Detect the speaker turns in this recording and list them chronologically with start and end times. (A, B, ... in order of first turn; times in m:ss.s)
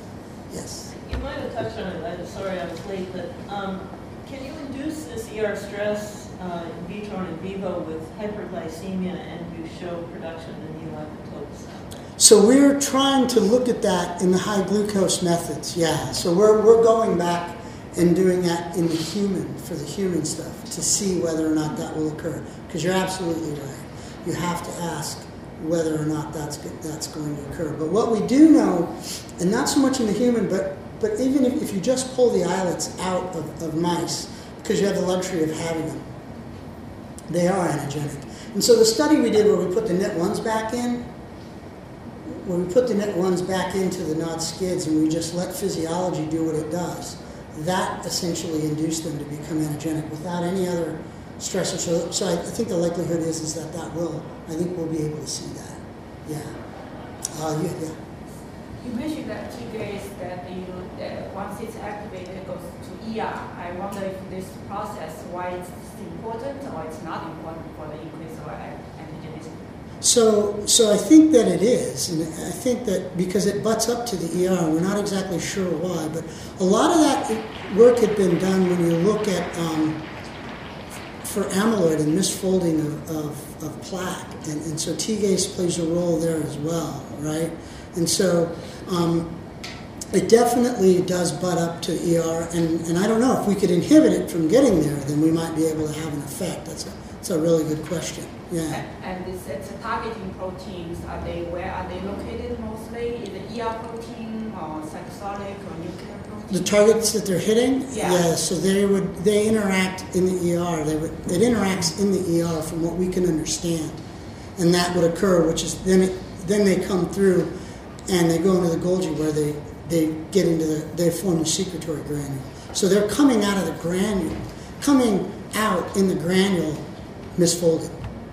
0:00.5-0:00.9 A
0:00.9-0:12.0 B
0:12.2-0:36.0 A
0:37.3-0:41.0 A
0:42.3-0:56.5 A
0:57.3-0:58.0 A
0:58.8-1:09.5 C
1:10.0-1:20.0 A
1:21.2-1:29.3 A
1:30.1-1:38.8 A
1:38.7-1:46.7 C
1:46.5-1:54.0 A
1:47.9-1:48.3 C
1:54.6-1:57.5 A
1:58.1-2:06.8 A
2:07.4-2:08.0 A